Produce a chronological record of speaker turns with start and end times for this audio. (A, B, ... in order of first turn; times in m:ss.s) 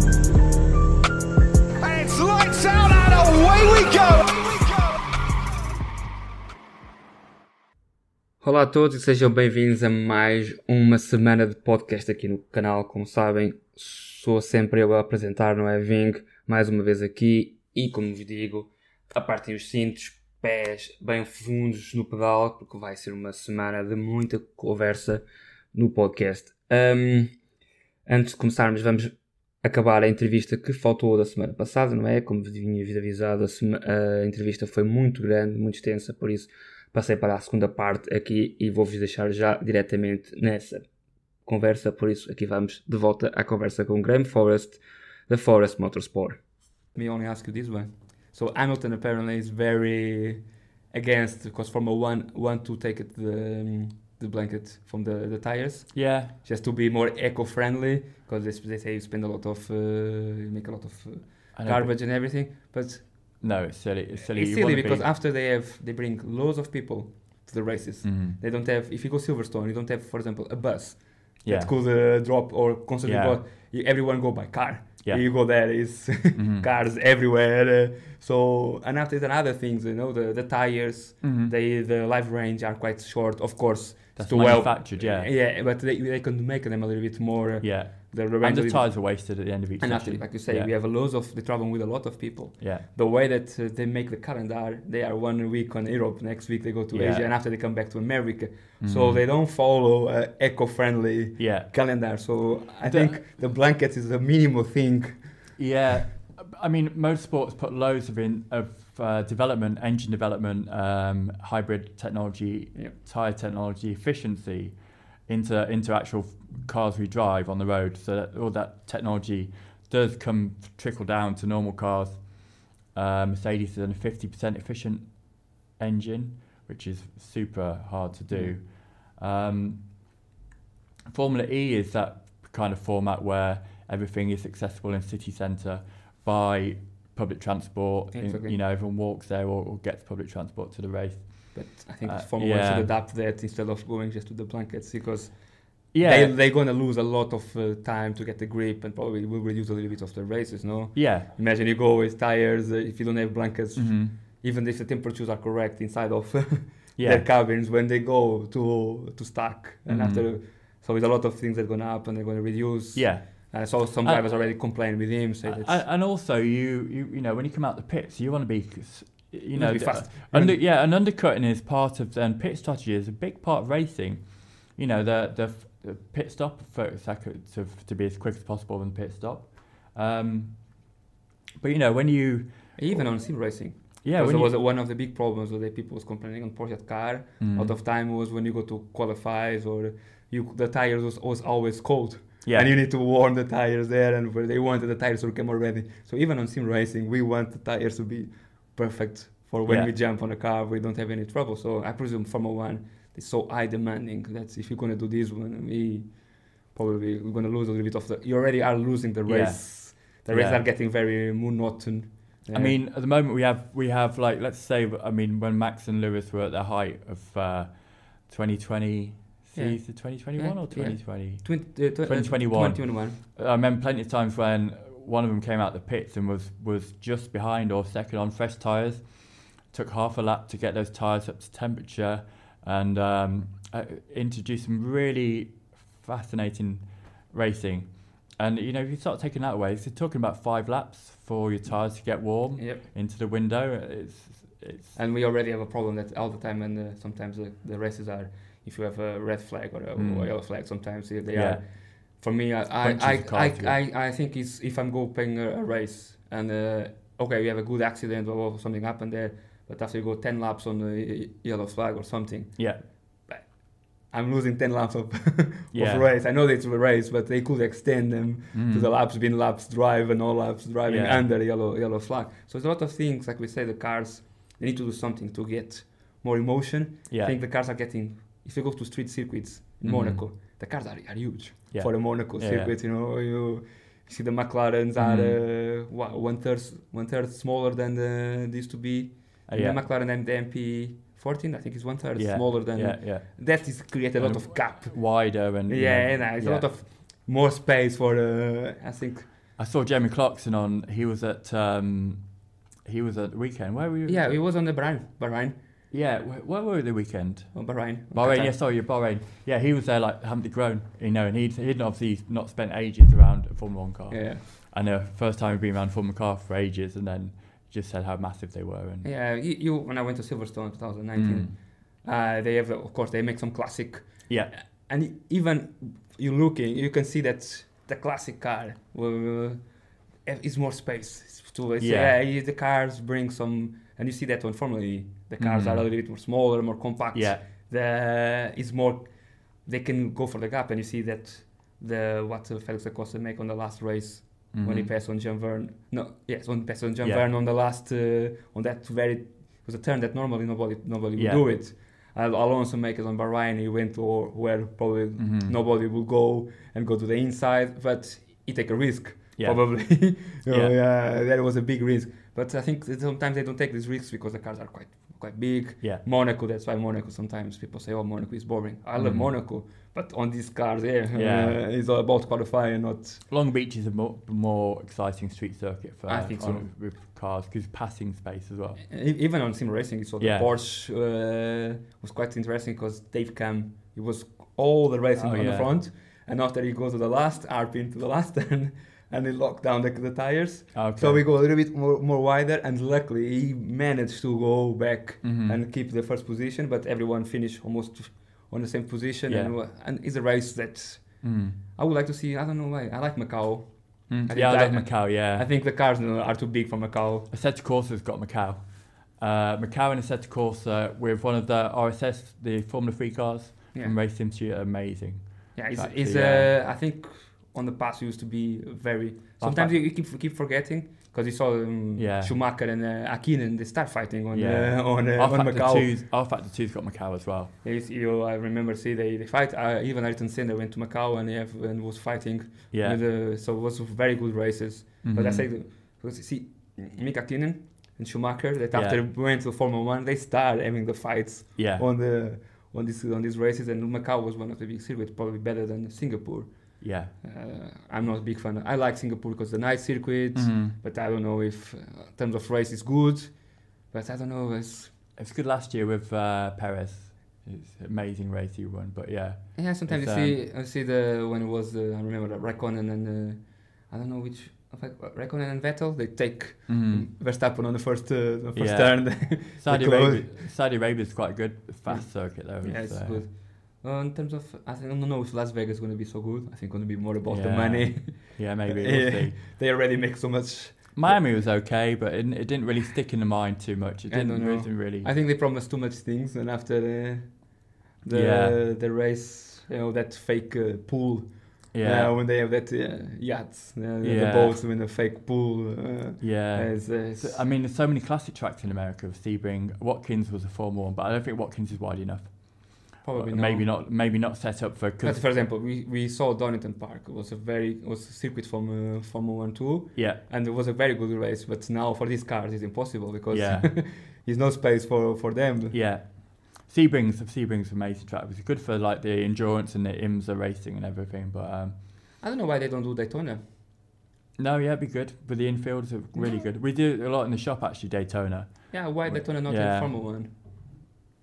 0:01.8-0:05.0 A
0:08.4-0:27.4 B
0:28.1-1:03.4 B
0:55.9-0:56.3 C
1:01.5-1:02.0 C
1:03.4-1:05.1 C
1:04.3-1:45.4 B
1:08.0-1:08.4 C
1:11.4-1:11.7 C
1:13.0-1:13.4 C
1:15.0-1:15.4 C
1:16.4-1:16.6 C
1:21.2-1:21.5 C
1:24.2-1:25.3 C
1:27.6-1:30.7 C
1:32.6-1:32.8 C
1:36.9-1:37.3 C
1:38.8-1:39.2 C
1:41.4-1:41.9 C
1:42.8-1:43.2 C
1:45.6-2:10.1 C
2:08.3-2:08.6 B
2:11.1-2:22.9 C
2:18.1-2:18.6 B
2:21.5-2:45.8 B
2:25.9-2:26.4 C
2:31.0-2:31.3 C
2:33.8-2:34.2 C
2:37.0-2:37.3 C
2:39.9-2:40.3 C
2:43.0-2:44.6 C
2:45.4-3:01.0 C
2:49.5-2:50.6 B
3:01.6-3:03.2 C
3:02.8-3:32.8 B
3:04.0-3:04.5 C
3:07.4-3:07.7 C
3:12.4-3:12.7 C
3:19.7-3:19.9 C
3:29.3-3:30.6 C
3:32.5-4:05.0 C
3:39.5-3:43.2 B
4:02.6-4:02.8 B
4:05.0-4:59.3 B
4:10.0-4:10.7 C
4:11.3-4:11.6 C
4:12.8-4:13.8 C
4:22.6-4:22.8 C
4:25.7-4:26.1 C
4:28.5-4:28.9 C
4:30.9-4:31.3 C
4:37.1-4:37.4 C
4:39.8-4:40.2 C
4:41.7-4:42.7 C
4:45.0-4:45.4 C
4:49.5-4:49.8 C
4:52.2-4:56.8 C
4:59.6-5:04.4 C
5:04.1-5:05.6 B
5:05.9-5:19.1 C
5:07.5-5:08.6 B
5:14.1-5:14.4 B
5:19.0-6:13.2 B
5:21.2-5:21.5 C
5:24.3-5:24.5 C
5:31.8-5:32.1 C
5:35.4-5:35.9 C
5:37.1-5:37.4 C
5:44.5-5:44.9 C
5:47.0-5:47.3 C
5:51.2-5:51.4 C
5:55.2-5:55.5 C
5:59.4-6:00.8 C
6:09.0-6:09.4 C
6:11.1-6:11.6 C
6:13.3-6:18.8 C
6:16.1-6:16.7 B
6:18.9-6:47.3 B
6:20.2-6:20.5 C
6:25.2-6:25.8 C
6:30.7-6:31.2 C
6:35.2-6:35.6 C
6:39.3-6:39.6 C
6:41.2-6:41.6 C
6:44.1-6:45.5 C
6:47.3-6:56.5 C
6:55.6-7:05.9 B
6:59.4-6:59.8 C
7:02.0-7:02.4 C
7:04.3-7:07.5 C
7:07.6-7:35.0 B
7:12.7-7:13.0 C
7:15.0-7:15.5 C
7:18.7-7:19.0 C
7:21.6-7:21.8 C
7:26.8-7:27.2 C
7:30.3-7:30.8 C
7:35.2-7:40.4 C
7:39.6-7:50.4 B
7:46.7-7:47.1 C
7:48.6-7:53.2 C
7:51.9-8:01.3 B
7:57.3-7:59.4 C
8:00.9-8:05.1 C
8:04.1-8:17.4 B
8:08.1-8:08.6 C
8:11.7-8:12.2 C
8:14.0-8:14.6 C
8:16.2-8:25.5 C
8:23.0-8:23.7 B
8:25.0-8:35.8 B
8:30.0-8:30.2 C
8:33.3-8:33.8 C
8:35.7-8:41.8 C
8:42.2-8:43.4 B
8:44.4-8:49.9 C
8:48.7-8:50.9 B